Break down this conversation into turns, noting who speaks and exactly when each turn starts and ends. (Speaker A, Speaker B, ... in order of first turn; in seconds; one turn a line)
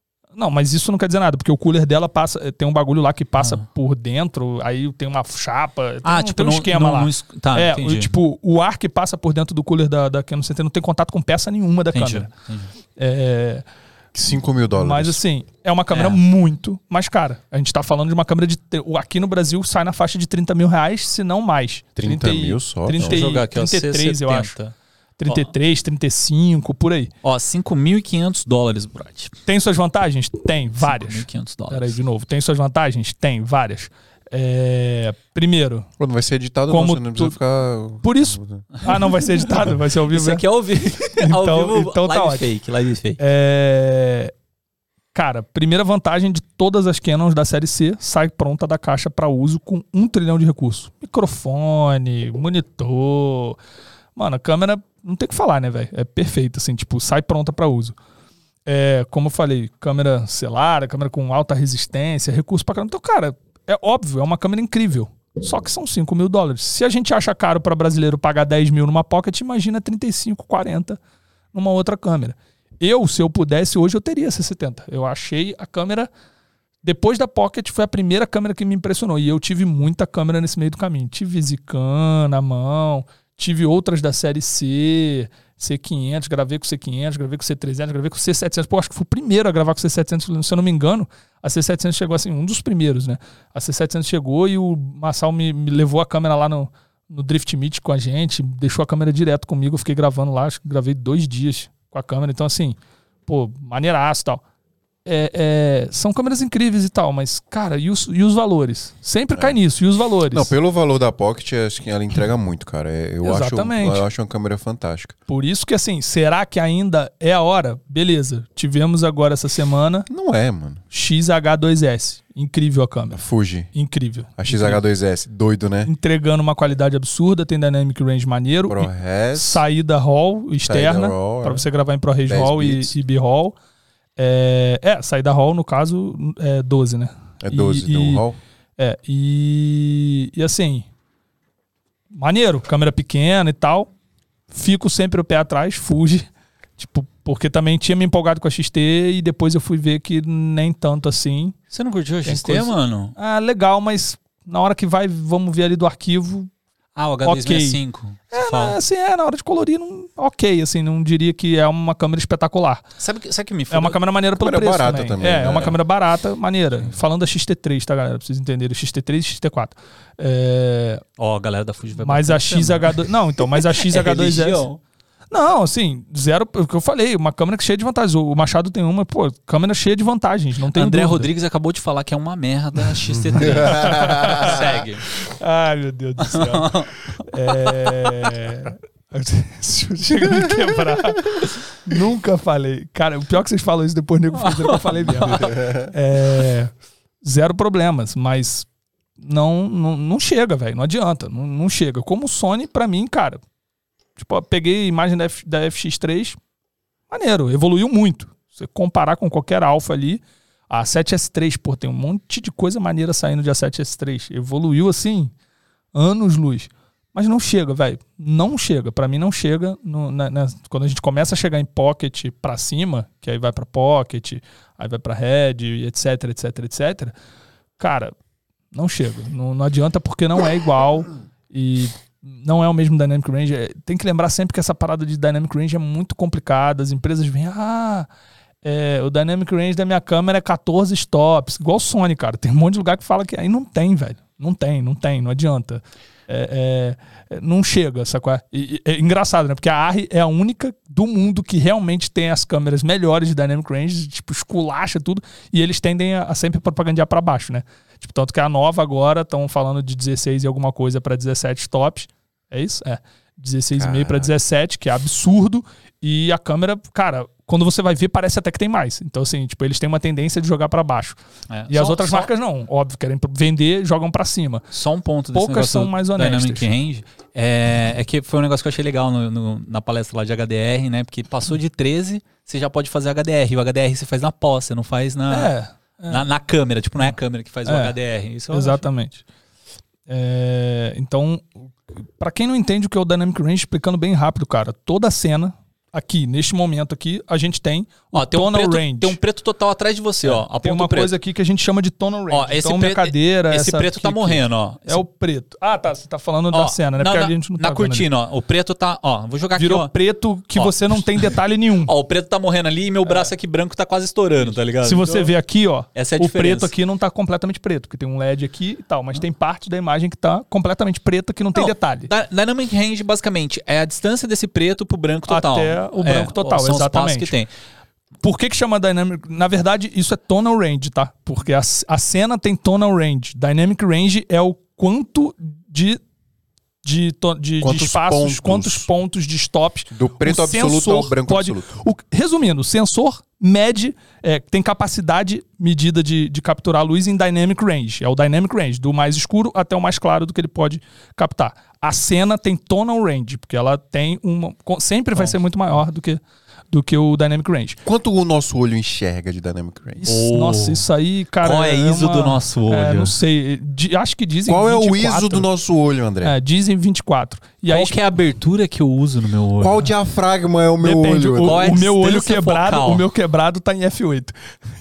Speaker A: 0.3-12.3
Speaker B: 3.4-3.6
Speaker B: 6.0-8.1
Speaker B: 11.9-12.7
Speaker A: 13.0-13.6
Speaker C: 14.1-15.2
Speaker A: 14.8-24.5
Speaker B: 15.9-16.2
Speaker C: 22.0-23.2
Speaker B: 23.0-24.7
Speaker A: 25.2-27.1
Speaker B: 27.2-29.3
Speaker A: 29.4-35.9
Speaker B: 30.8-31.9
Speaker C: 36.0-38.6
Speaker A: 36.7-37.4
Speaker A: 38.0-40.4
Speaker B: 40.1-43.2
Speaker A: 41.0-42.5
Speaker A: 43.2-44.3
Speaker A: 45.1-53.6
Speaker A: 54.1-58.0
Speaker A: 58.6-71.0
Speaker A: 71.5-76.1
Speaker A: 76.8-104.4
Speaker A: 105.0-110.5
Speaker C: 110.3-115.1
Speaker A: 113.2-114.0
Speaker A: 115.3-120.1
Speaker C: 120.1-120.8
Speaker A: 120.9-124.8
Speaker C: 123.1-123.7
Speaker C: 124.4-125.9
Speaker A: 125.8-133.6
Speaker C: 128.7-129.6
Speaker C: 130.6-131.7
Speaker C: 132.3-132.9
Speaker A: 134.2-138.2
Speaker C: 137.4-138.4
Speaker A: 138.8-140.8
Speaker A: 142.1-143.9
Speaker A: 144.5-151.6
Speaker B: 151.7-153.1
Speaker A: 152.2-156.5
Speaker B: 156.9-158.8
Speaker A: 157.2-157.8
Speaker A: 158.3-162.8
Speaker B: 163.0-164.0
Speaker A: 163.7-171.0
Speaker C: 164.4-165.8
Speaker B: 171.2-174.8
Speaker A: 172.0-174.6
Speaker A: 175.3-181.3
Speaker B: 180.7-185.1
Speaker C: 183.3-184.6
Speaker A: 183.5-198.7
Speaker B: 186.2-186.9
Speaker B: 187.6-188.3
Speaker B: 194.4-195.6
Speaker A: 199.2-203.4
Speaker A: 204.2-206.4
Speaker A: 207.1-215.3
Speaker A: 215.9-227.1
Speaker A: 227.8-228.1
Speaker A: 228.7-238.1
Speaker A: 238.6-274.7
Speaker C: 263.8-264.3
Speaker B: 271.5-272.3
Speaker B: 274.7-285.5
Speaker A: 275.3-276.7
Speaker A: 285.3-286.2
Speaker B: 286.1-288.8
Speaker A: 287.6-287.9
Speaker A: 288.5-289.2
Speaker A: 290.1-299.2
Speaker B: 298.1-301.1
Speaker A: 300.2-308.1
Speaker B: 302.3-305.0
Speaker B: 306.5-309.9
Speaker A: 309.6-311.9
Speaker B: 310.5-315.3
Speaker A: 313.1-313.3
Speaker A: 314.4-322.1
Speaker B: 315.9-316.7
Speaker B: 321.5-327.5
Speaker A: 325.3-327.3
Speaker A: 328.2-336.0
Speaker A: 336.8-357.8
Speaker C: 337.6-338.9
Speaker C: 339.9-341.7
Speaker C: 357.8-360.1
Speaker A: 360.0-365.5
Speaker B: 360.1-360.8
Speaker B: 361.4-363.1
Speaker C: 364.5-366.3
Speaker A: 366.2-368.0
Speaker B: 367.7-369.9
Speaker C: 369.6-371.7
Speaker A: 370.8-374.3
Speaker B: 371.4-373.0